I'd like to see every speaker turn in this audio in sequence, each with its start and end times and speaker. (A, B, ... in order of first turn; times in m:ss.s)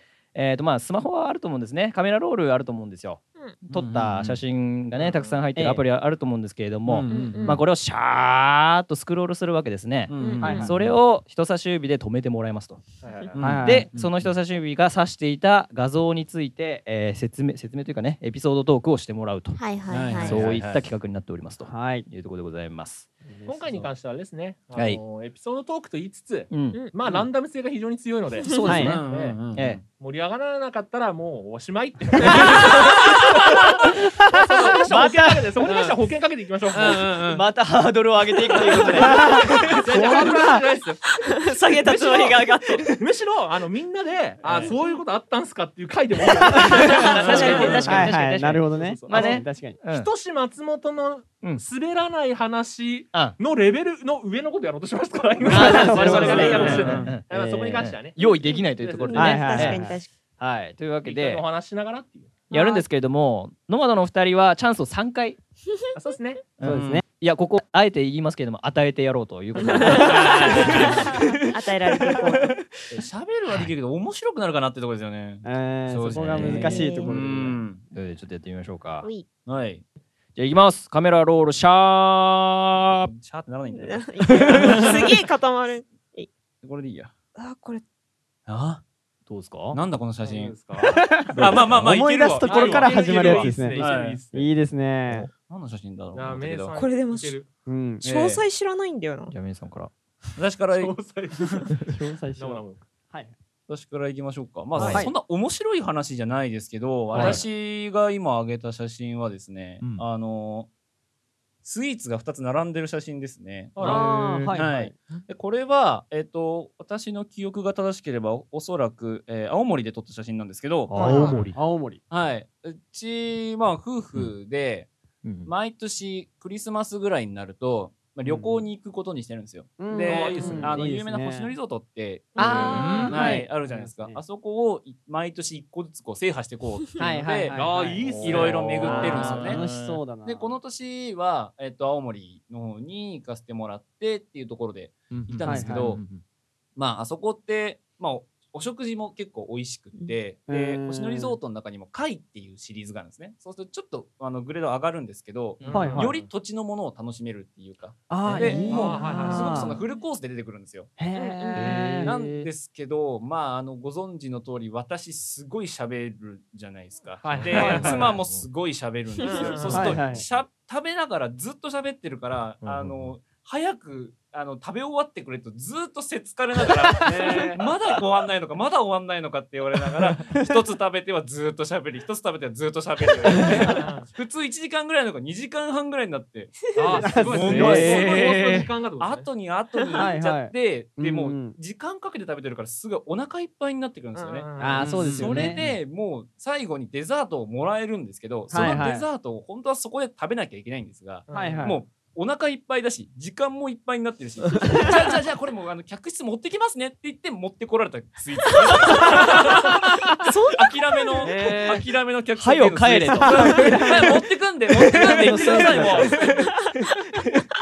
0:00.3-0:12.8 A
0:03.7-0:04.4 B
0:04.9-0:05.6 C
0:05.6-0:05.8 D
0:06.8-0:07.6 B
0:07.1-0:07.6 E
0:10.1-0:10.9 B
0:10.2-0:10.6 E
0:10.4-0:10.7 D
0:13.0-0:13.8 C
0:13.4-0:14.3 B
0:13.4-0:13.9 D
0:13.6-0:23.1 A
0:19.5-0:20.4 E
0:19.9-0:20.8 B
0:21.6-0:22.1 D
0:23.3-0:23.8 D
0:23.4-0:37.4 C
0:24.7-0:25.0 A
0:26.5-0:26.9 A
0:28.4-0:29.8 A
0:28.6-0:29.0 D
0:28.8-0:29.8 B
0:32.3-0:33.0 A
0:34.3-0:35.9 A
0:36.7-0:40.4 A
0:36.7-0:37.4 B
0:38.5-0:41.1 C
0:39.0-0:40.6 D
0:41.3-0:42.5 E
0:41.4-0:42.8 A
0:41.9-0:59.6 C
0:44.4-0:44.7 A
0:44.7-0:45.0 E
0:46.4-0:47.0 D
0:46.5-0:50.1 A
0:46.9-0:48.0 E
0:47.1-0:47.9 B
0:47.8-0:49.8 D
0:55.4-1:01.4 A
0:55.5-0:57.1 D
0:55.6-0:57.1 B
0:59.1-1:00.1 E
0:59.1-1:00.0 D
1:01.0-1:02.4 C
1:02.5-1:02.8 E
1:02.5-1:05.4 A
1:06.0-1:06.4 C
1:06.6-1:11.4 A
1:06.6-1:07.0 D
1:06.7-1:07.0 B
1:09.6-1:12.6 E
1:09.7-1:11.2 B
1:12.0-1:12.6 A
1:12.9-1:17.8 B
1:15.4-1:17.6 D
1:16.1-1:17.0 A
1:16.6-1:17.1 E
1:17.9-1:19.1 A
1:19.5-1:19.8 B
1:20.3-1:23.1 A
1:23.0-1:25.1 B
1:23.7-1:26.3 E
1:26.6-1:27.1 B
1:27.4-1:27.8 E
1:28.5-1:28.8 B
1:29.3-1:29.8 A
1:29.7-1:30.6 B
1:30.2-1:34.5 C
1:30.8-1:35.3 D
1:31.2-1:34.2 B
1:31.3-1:31.9 A
1:35.4-1:36.7 B
1:36.1-1:37.5 C
1:36.7-1:37.4 E
1:37.6-1:38.0 D
1:38.0-1:38.4 B
1:38.0-1:39.3 E
1:39.3-1:39.9 A
1:40.4-1:40.9 B
1:40.7-1:42.8 C
1:41.8-1:43.3 D
1:43.7-1:50.7 B
1:44.8-1:45.1 A
1:44.8-1:45.1 C
1:44.8-1:45.1 D
1:47.1-1:47.4 C
1:47.2-1:47.4 A
1:51.6-1:54.0 B
1:53.8-1:54.3 C
1:53.8-1:54.9 D
1:53.8-1:54.6 A
1:54.5-2:01.0 B
2:00.9-2:01.6 A
2:00.9-2:02.0 D
2:01.0-2:01.5 C
2:02.1-2:04.9 B
2:05.2-2:05.5 A
2:05.4-2:17.6 B
2:08.4-2:08.6 D
2:09.8-2:11.5 D
2:09.9-2:10.9 C
2:10.4-2:10.7 A
2:12.4-2:13.1 E
2:12.4-2:14.2 D
2:12.6-2:13.4 A
2:17.0-2:20.6 D
2:17.5-2:19.5 C
2:18.0-2:20.0 A
2:18.2-2:19.6 B
2:20.2-2:26.0 B
2:25.2-2:26.2 A
2:25.4-2:26.0 D
2:26.8-2:40.9 B
2:30.5-2:31.4 D
2:35.6-2:36.3 C
2:35.7-2:36.1 D
2:38.1-2:39.8 D
2:38.4-2:39.2 E
2:38.5-2:39.7 C
2:41.0-2:42.5 D
2:41.1-2:41.8 E
2:41.5-2:42.2 A
2:42.0-3:36.5 B
2:47.2-2:48.1 C
2:47.4-2:48.5 A
2:47.5-2:48.0 D
2:49.2-2:50.2 C
2:49.2-2:49.5 E
2:49.7-2:50.2 D
2:49.8-2:50.2 A
2:52.6-2:53.1 A
2:57.2-2:57.5 D
3:03.4-3:03.8 D
3:03.4-3:04.1 C
3:06.7-3:09.3 C
3:06.8-3:07.1 E
3:07.0-3:08.4 D
3:09.8-3:10.1 E
3:09.9-3:11.6 D
3:14.1-3:15.7 C
3:14.6-3:15.6 D
3:15.3-3:15.7 A
3:18.5-3:19.1 D
3:21.3-3:21.8 C
3:21.3-3:21.8 D
3:31.2-3:31.8 C
3:32.4-3:34.0 A
3:33.2-3:34.2 D
3:34.8-3:37.4 A
3:34.9-3:36.1 D
3:35.8-3:36.3 C